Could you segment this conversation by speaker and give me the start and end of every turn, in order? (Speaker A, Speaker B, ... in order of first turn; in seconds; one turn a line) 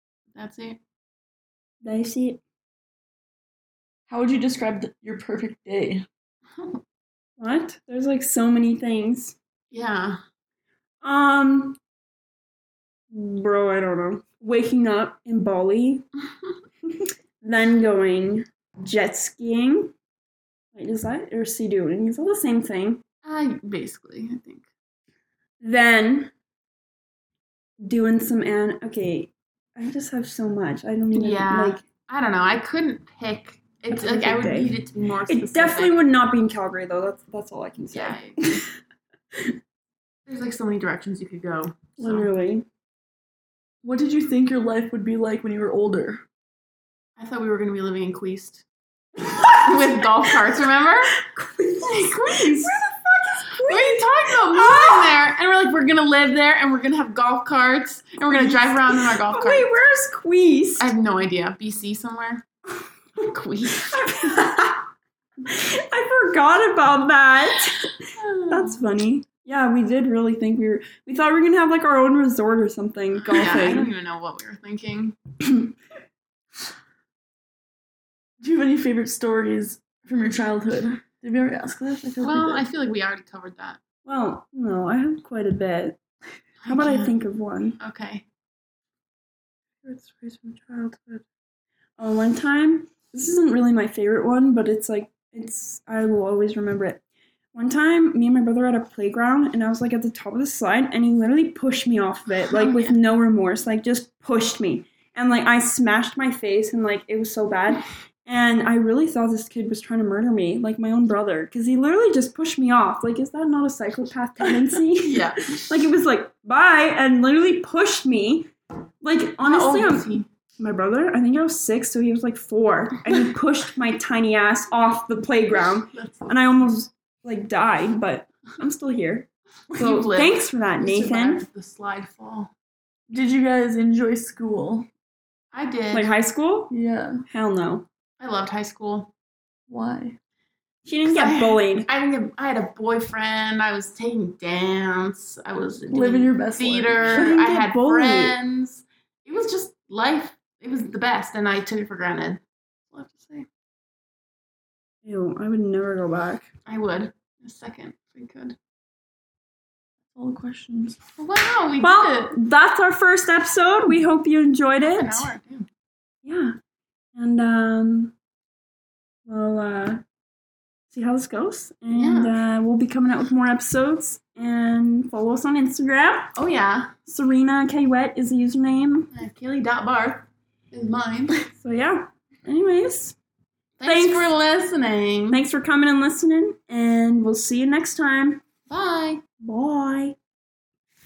Speaker A: 0.3-0.8
Speaker B: 1.8-2.4
Speaker C: 4.1-6.0
Speaker B: 7.4-9.3
Speaker A: 9.7-10.2
Speaker B: 11.0-11.8
Speaker B: 13.1-16.1
Speaker B: 17.4-19.9
Speaker B: 20.7-23.0
Speaker A: 23.2-24.6
Speaker B: 25.6-26.3
Speaker B: 27.8-31.8
Speaker A: 31.1-35.9
Speaker B: 33.9-34.8
Speaker B: 35.3-38.7
Speaker A: 37.9-38.6
Speaker A: 40.3-42.3
Speaker B: 42.0-42.6
Speaker C: 43.8-46.2
Speaker A: 47.2-48.6
Speaker B: 49.3-50.0
Speaker A: 49.4-51.1
Speaker B: 51.2-55.2
Speaker A: 52.3-52.7
Speaker A: 53.6-59.7
Speaker B: 58.3-60.9
Speaker A: 60.8-62.4
Speaker A: 63.1-64.0
Speaker B: 63.8-64.9
Speaker B: 65.4-73.9
Speaker A: 68.2-68.8
Speaker A: 73.2-75.2
Speaker C: 78.4-82.6
Speaker A: 82.2-83.8
Speaker B: 84.0-86.0
Speaker A: 86.6-87.1
Speaker B: 86.7-87.8
Speaker A: 87.8-88.2
Speaker B: 89.8-91.2
Speaker B: 92.0-97.0
Speaker B: 97.5-118.5
Speaker A: 102.5-103.0
Speaker A: 115.0-115.6
Speaker B: 119.0-131.4
Speaker A: 119.4-120.3
Speaker A: 125.5-126.4
Speaker A: 129.7-132.5
Speaker C: 133.1-134.9
Speaker A: 135.5-136.1
Speaker B: 135.9-136.7
Speaker C: 136.7-137.2
Speaker B: 137.3-137.8
Speaker A: 138.2-139.1
Speaker C: 139.7-140.2
Speaker B: 140.8-141.9
Speaker A: 141.1-153.4
Speaker C: 145.9-147.2
Speaker B: 147.1-148.4
Speaker B: 155.0-156.5
Speaker A: 156.7-158.6
Speaker C: 160.1-161.0
Speaker A: 161.2-162.3
Speaker B: 161.8-165.3
Speaker A: 164.8-165.7
Speaker B: 166.2-166.6
Speaker B: 167.1-168.1
Speaker B: 169.2-170.0
Speaker B: 170.9-176.3
Speaker A: 171.9-172.4
Speaker A: 176.3-176.9
Speaker B: 177.1-179.1
Speaker A: 179.1-181.5
Speaker B: 181.5-183.2
Speaker A: 183.8-185.4
Speaker B: 183.8-184.3
Speaker B: 185.3-188.4
Speaker A: 188.7-189.2
Speaker B: 189.4-190.2